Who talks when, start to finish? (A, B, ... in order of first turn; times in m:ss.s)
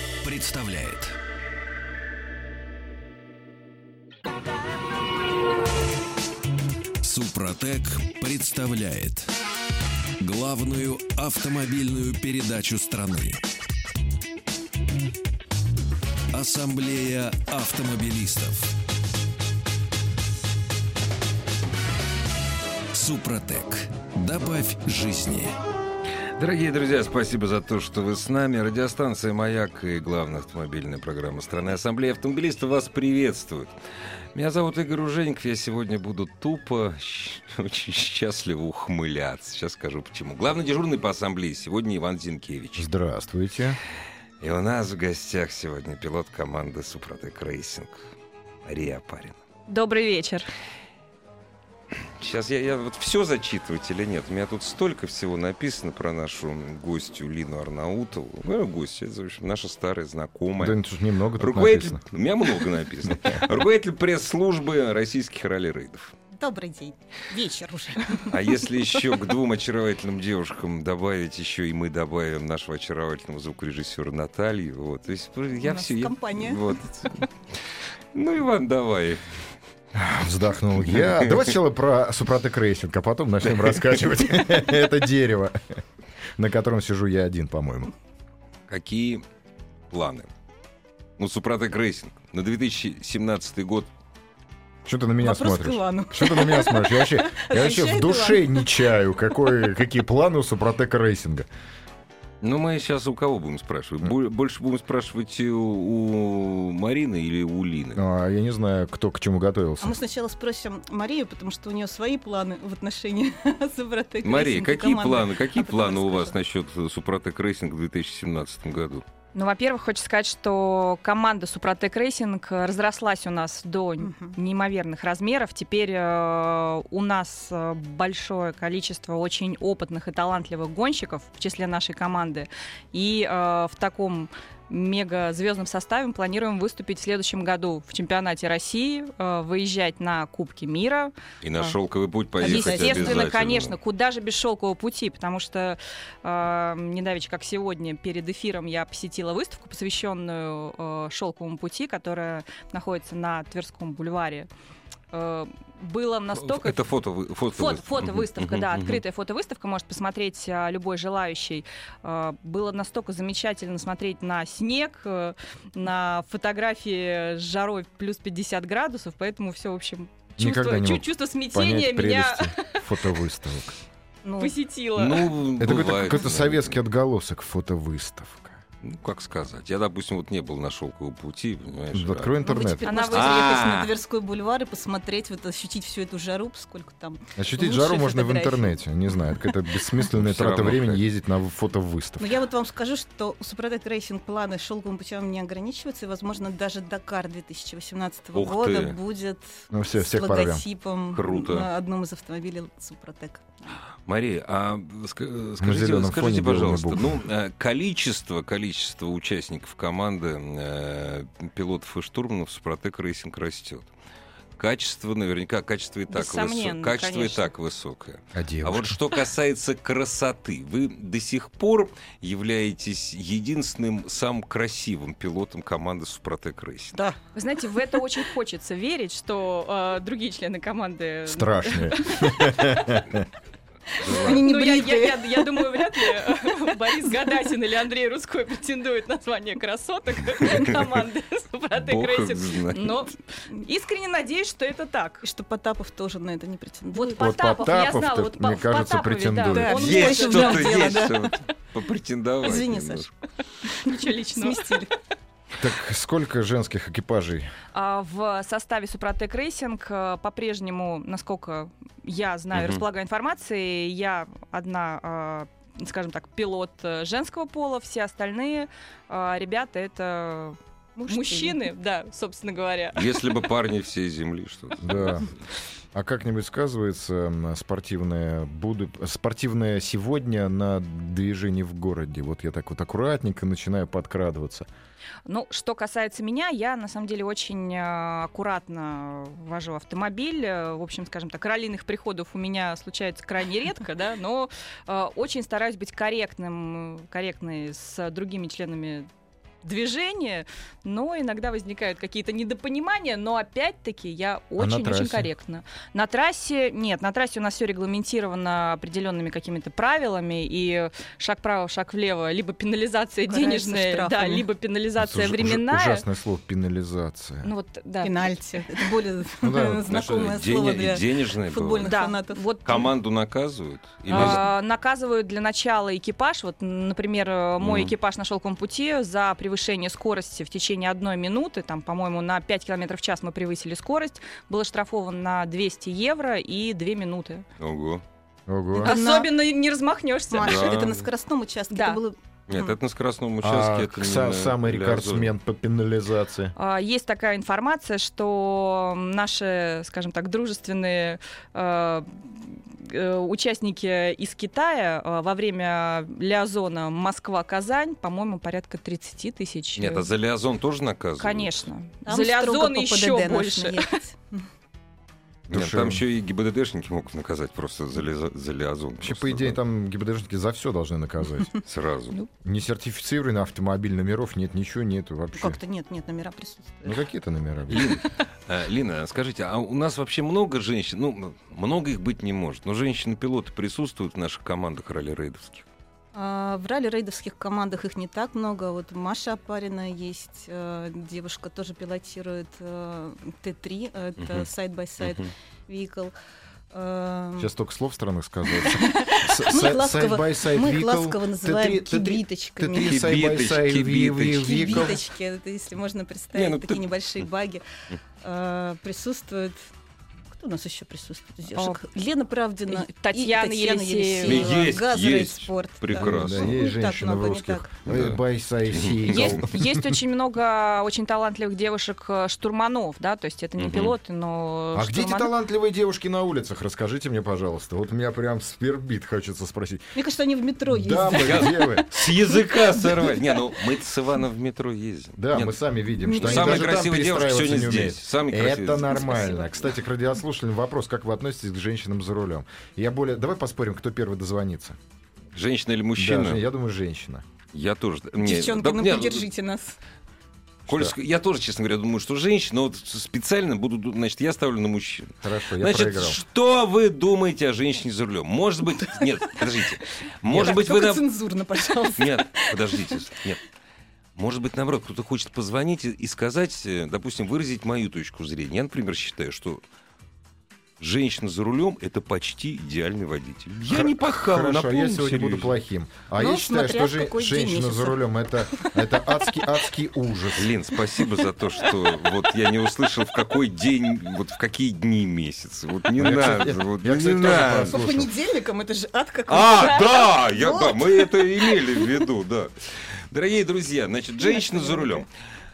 0:00.2-0:01.1 A
0:07.0-0:09.3 A
0:10.2-0:13.4 A
0:16.3-0:18.7 A
0:22.9-0:25.5 A
0:26.4-0:33.7 B
0:34.3-0:42.9 B
0:42.8-0:43.8 C
0:44.4-0:48.1 B
0:48.6-0:49.4 B
0:49.7-0:50.5 D
0:52.2-1:00.8 B
1:00.6-1:02.0 C
1:01.4-1:06.1 B
1:03.1-1:03.4 C
1:06.3-1:08.3 E
1:08.3-1:17.3 B
1:15.6-1:16.6 E
1:18.1-1:19.2 B
1:19.9-1:25.8 C
1:20.9-1:21.4 B
1:26.4-1:27.9 C
1:28.7-1:29.2 B
1:29.9-1:30.3 B
1:31.2-1:33.9 B
1:34.8-1:41.5 C
1:35.2-1:38.8 E
1:42.4-1:48.0 B
1:47.9-1:50.0 C
1:49.8-1:56.4 E
1:54.2-1:59.0 B
1:59.3-2:21.7 D
2:04.0-2:04.4 E
2:21.4-2:23.7 B
2:22.4-2:23.3 E
2:22.4-2:34.5 D
2:35.1-2:36.8 D
2:36.3-2:39.0 B
2:37.5-2:52.7 D
2:50.4-2:53.8 C
2:54.2-2:54.6 E
2:54.4-2:55.3 D
2:55.0-2:56.8 B
2:55.6-2:58.6 C
2:58.8-3:02.4 B
3:01.9-3:02.9 C
3:02.4-3:08.8 E
3:02.8-3:03.4 D
3:03.1-3:03.9 B
3:07.4-3:12.3 C
3:10.1-3:11.0 B
3:12.2-3:23.8 E
3:18.3-3:19.0 B
3:19.7-3:20.6 C
3:21.1-3:21.7 B
3:24.0-3:33.9 B
3:25.6-3:27.2 C
3:34.6-3:47.0 B
3:36.1-3:37.5 D
3:38.3-3:39.0 C
3:47.3-3:52.8 D
3:51.3-3:53.2 C
3:54.0-3:57.3 E
3:54.0-3:54.3 B
3:54.1-4:05.2 D
4:01.7-4:03.1 B
4:05.2-4:07.2 E
4:06.9-4:11.0 D
4:07.2-4:09.7 C
4:09.5-4:11.3 E
4:09.7-4:13.1 B
4:12.4-4:13.1 E
4:13.7-4:14.9 E
4:13.8-4:14.7 D
4:15.6-4:17.5 C
4:17.7-4:33.0 D
4:22.5-4:22.8 B
4:31.0-4:31.6 E
4:32.9-4:35.3 B
4:34.8-4:35.3 C
4:35.9-4:44.7 C
4:45.2-4:59.1 D
4:59.6-5:16.0 D
5:04.6-5:05.3 C
5:13.2-5:14.5 E
5:15.0-5:17.5 C
5:17.4-5:18.8 D
5:18.0-5:22.4 E
5:19.4-5:19.8 C
5:19.9-5:21.9 B
5:21.8-5:22.9 D
5:22.6-5:24.4 B
5:24.1-5:37.4 D
5:27.6-5:27.9 B
5:37.6-5:38.0 B
5:38.5-5:38.9 C
5:38.8-5:39.5 E
5:38.8-5:40.7 D
5:40.3-5:42.7 E
5:40.4-5:41.1 B
5:41.7-5:42.0 D
5:42.5-5:45.3 B
5:43.4-5:46.5 C
5:46.6-6:00.1 D
5:59.8-6:01.7 B
6:01.2-6:03.9 D
6:02.0-6:04.4 E
6:05.5-6:06.0 C
6:05.5-6:09.6 B
6:09.0-6:11.6 C
6:11.6-6:12.2 B
6:12.4-6:15.6 C
6:15.3-6:17.0 E
6:16.8-6:18.0 C
6:17.7-6:25.6 B
6:26.1-6:36.1 E
6:34.2-6:34.5 B
6:35.0-6:35.3 B
6:36.7-6:37.5 E
6:37.4-6:45.0 C
6:38.5-6:43.0 E
6:42.8-6:45.0 B
6:44.3-6:47.6 E
6:46.3-6:47.2 B
6:48.2-6:49.7 E
6:50.3-6:57.7 E
6:51.5-6:51.8 D
6:52.7-6:54.6 D
6:54.2-6:56.6 B
6:55.9-7:00.0 C
6:57.8-6:58.2 B
6:58.7-6:59.3 B
6:59.1-7:05.3 D
7:03.6-7:03.9 B
7:04.7-7:09.9 C
7:10.0-7:11.8 E
7:10.7-7:11.9 C
7:11.1-7:15.6 B
7:15.2-7:24.8 C
7:16.0-7:16.8 E
7:16.1-7:19.1 B
7:18.9-7:19.5 E
7:25.3-7:26.4 B
7:26.0-7:27.2 C
7:27.5-7:29.3 B
7:28.2-7:29.8 E
7:30.7-7:41.0 B
7:30.7-7:30.9 C
7:35.2-7:36.2 C
7:38.8-7:43.0 E
7:42.0-7:43.4 B
7:44.2-7:49.6 B
7:50.8-7:55.6 B
7:53.7-8:00.5 C
7:56.2-7:58.0 E
8:00.4-8:07.8 B
8:06.0-8:08.1 C
8:07.7-8:12.0 E
8:09.3-8:15.1 B
8:14.2-8:15.0 E